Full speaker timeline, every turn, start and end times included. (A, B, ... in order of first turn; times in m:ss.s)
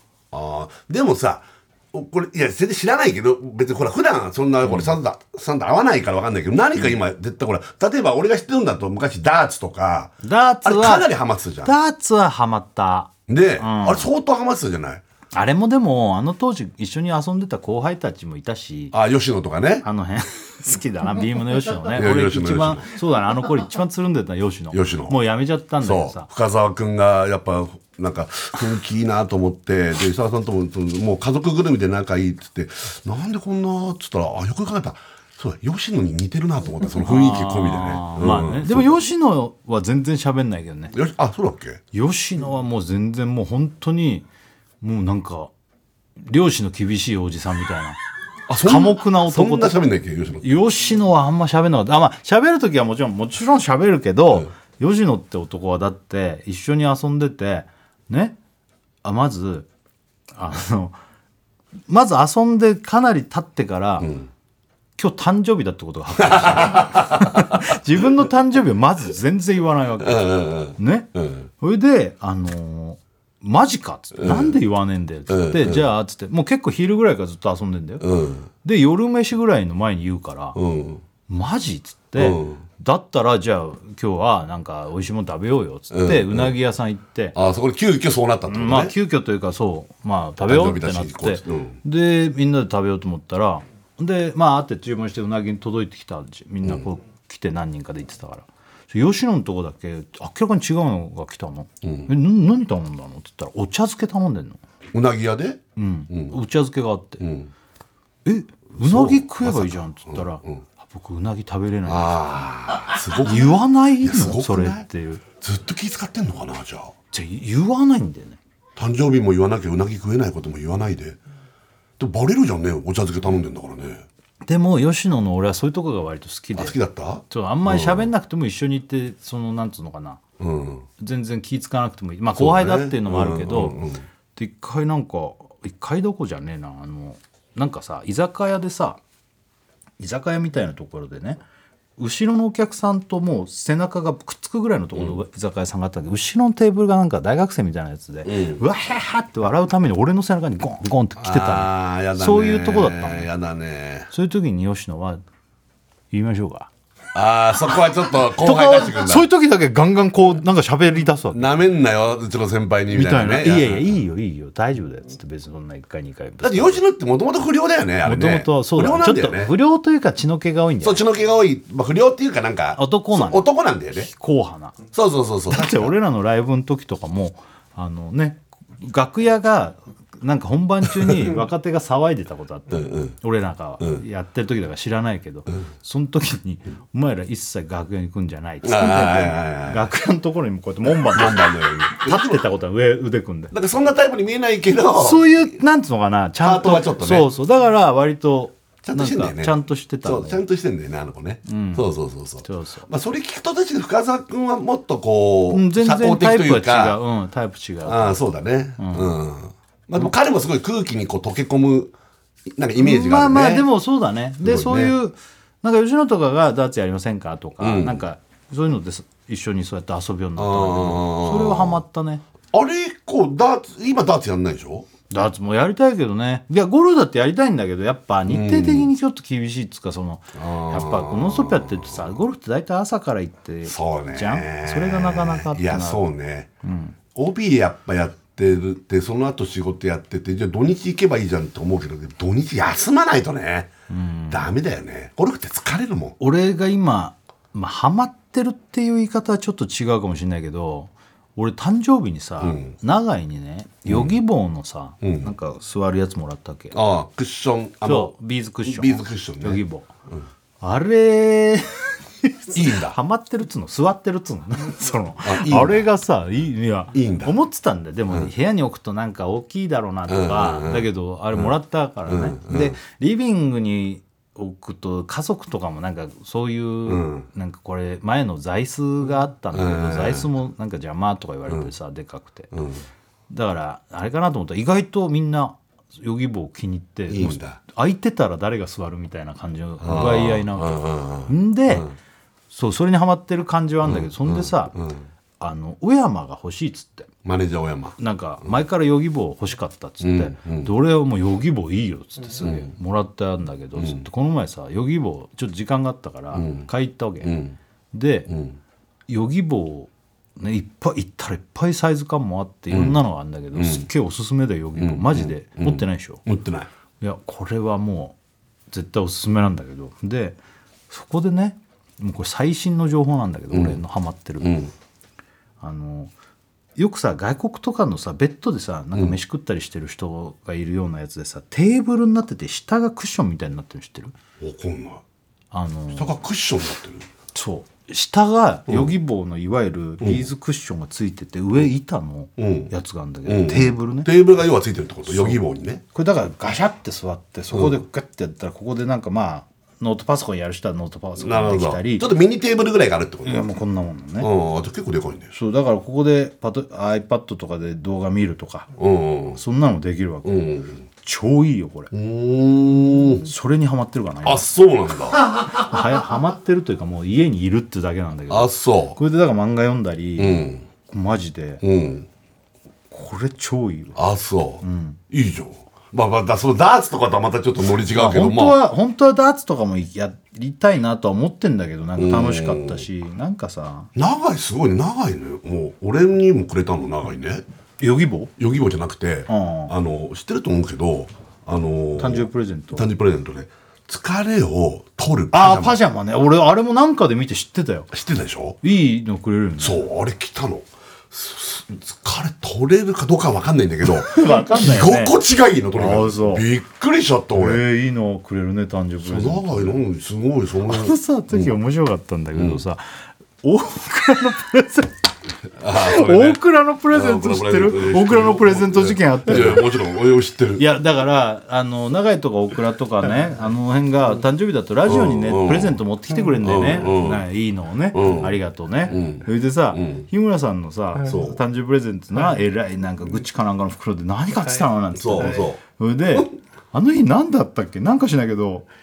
0:00.3-0:11.7 A
0:04.6-0:05.0 B
0:10.2-0:11.1 B
0:11.6-0:14.1 B
0:13.3-0:15.0 A
0:15.3-0:18.9 B
0:18.9-0:19.9 A
0:19.8-0:26.3 B
0:21.9-0:22.9 A
0:24.7-0:25.2 A
0:25.8-0:39.0 A
0:37.0-0:41.0 B
0:40.9-0:41.8 A
0:41.9-0:44.3 B
0:44.8-0:45.5 B
0:46.2-0:48.0 B
0:48.5-0:50.5 A
0:48.6-0:49.9 B
0:50.4-0:58.4 B
0:59.0-0:59.7 B
1:00.3-1:01.0 B
1:01.9-1:04.2 B
1:04.0-1:04.3 A
1:05.0-1:18.1 B
1:06.2-1:07.7 A
1:10.0-1:11.5 A
1:14.2-1:14.6 A
1:15.3-1:15.9 A
1:18.0-1:18.5 A
1:18.6-1:20.6 B
1:20.6-1:21.0 A
1:21.3-1:27.4 B
1:22.2-1:22.6 A
1:25.9-1:26.6 A
1:27.4-1:28.9 A
1:28.5-1:44.6 B
1:30.4-1:31.8 A
1:41.8-1:42.1 A
1:44.9-1:46.4 A
1:45.8-1:47.2 B
1:47.2-1:47.5 A
1:48.2-1:52.5 B
1:48.7-1:50.6 A
1:51.9-1:54.9 A
1:53.2-1:55.2 B
1:55.4-1:56.9 A
1:57.1-1:58.4 B
1:58.8-2:01.2 A
2:02.0-2:04.1 A
2:04.5-2:06.8 B
2:06.6-2:08.1 A
2:07.3-2:10.2 B
2:10.4-2:10.9 A
2:11.0-2:13.8 B
2:12.4-2:14.1 A
2:14.4-2:19.0 B
2:20.0-2:21.4 B
2:22.0-2:33.3 B
2:28.3-2:28.6 A
2:31.2-2:34.1 A
2:34.1-2:35.2 B
2:36.1-2:36.7 B
2:37.1-2:39.3 A
2:38.3-2:41.5 B
2:41.3-2:44.0 A
2:42.9-2:46.8 B
2:46.4-2:49.5 A
2:48.0-2:51.0 B
2:50.8-2:54.1 A
2:52.8-2:54.8 B
2:54.9-2:55.9 A
2:55.5-3:13.5 B
3:02.7-3:03.2 A
3:08.6-3:09.9 A
3:11.0-3:12.4 A
3:13.5-3:15.4 A
3:15.0-3:20.4 B
3:16.4-3:17.3 A
3:18.8-3:27.0 A
3:21.5-3:21.9 B
3:22.4-3:22.9 B
3:25.5-3:28.2 B
3:27.8-3:31.9 A
3:28.8-3:29.2 B
3:32.5-3:33.7 A
3:32.8-3:42.2 B
3:34.4-3:35.0 A
3:37.6-3:38.0 A
3:40.4-3:41.8 A
3:42.5-3:44.9 A
3:45.1-3:56.1 B
3:48.3-3:48.9 A
3:50.4-3:52.0 A
3:53.6-3:56.5 A
3:56.6-3:57.0 B
3:57.1-4:03.7 A
4:03.9-4:04.5 B
4:04.3-4:06.2 A
4:06.2-4:16.8 B
4:12.4-4:12.7 A
4:13.9-4:14.2 A
4:15.0-4:15.3 A
4:16.7-4:20.3 A
4:17.8-4:19.9 B
4:20.6-4:42.5 B
4:22.5-4:23.0 A
4:25.2-4:25.8 A
4:26.9-4:27.4 A
4:30.1-4:31.5 A
4:32.1-4:32.8 A
4:36.9-4:37.3 A
4:39.5-4:40.3 A
4:42.5-4:42.9 A
4:43.3-4:51.9 B
4:47.1-4:47.6 A
4:49.8-4:51.9 A
4:52.5-4:54.8 B
4:53.8-4:55.1 A
4:55.4-4:57.1 B
4:57.2-4:58.5 A
4:58.0-5:07.4 B
5:00.0-5:00.7 A
5:02.4-5:02.7 A
5:03.8-5:04.0 A
5:06.3-5:06.7 A
5:07.2-5:07.6 A
5:07.9-5:08.3 B
5:08.3-5:08.6 A
5:09.1-5:16.2 B
5:12.7-5:13.0 A
5:13.6-5:13.9 A
5:14.8-5:16.7 A
5:17.0-5:18.2 B
5:18.7-5:20.4 B
5:20.9-5:24.6 B
5:23.5-5:23.8 A
5:24.4-5:24.7 A
5:25.6-5:26.1 B
5:26.8-5:34.2 B
5:34.4-5:35.0 A
5:35.5-5:36.2 B
5:35.9-5:37.1 A
5:37.3-5:44.1 B
5:40.0-5:40.3 A
5:42.4-5:42.7 A
5:43.2-5:45.8 A
5:45.1-5:45.4 B
5:45.9-5:52.1 B
5:47.5-5:47.8 A
5:51.2-5:53.5 A
5:53.2-5:54.3 B
5:54.2-5:55.3 A
5:55.3-5:58.7 B
5:58.8-5:59.4 A
5:59.4-6:01.9 B
6:00.2-6:00.8 A
6:01.9-6:03.3 A
6:03.2-6:04.5 B
6:04.2-6:05.2 A
6:05.3-6:11.6 B
6:08.3-6:09.0 A
6:10.2-6:10.7 A
6:11.6-6:12.1 A
6:12.9-6:14.0 B
6:14.0-6:18.6 A
6:14.6-6:15.0 B
6:17.9-6:23.9 B
6:22.0-6:22.8 A
6:24.0-6:27.4 A
6:27.8-6:28.3 B
6:28.4-6:35.8 A
6:29.3-6:29.7 B
6:32.0-6:32.9 B
6:35.3-6:37.9 B
6:37.9-6:38.6 A
6:38.6-6:39.9 B
6:39.6-6:47.6 A
6:44.1-6:45.2 B
6:45.7-6:46.5 B
6:47.4-6:49.8 B
6:49.0-6:51.5 A
6:50.7-6:55.1 B
6:52.4-6:52.6 A
6:55.6-7:00.7 A
6:55.7-6:59.8 B
7:00.6-7:18.7 B
7:04.8-7:05.8 A
7:06.4-7:07.2 A
7:07.9-7:10.1 A
7:11.0-7:11.4 A
7:15.0-7:16.3 A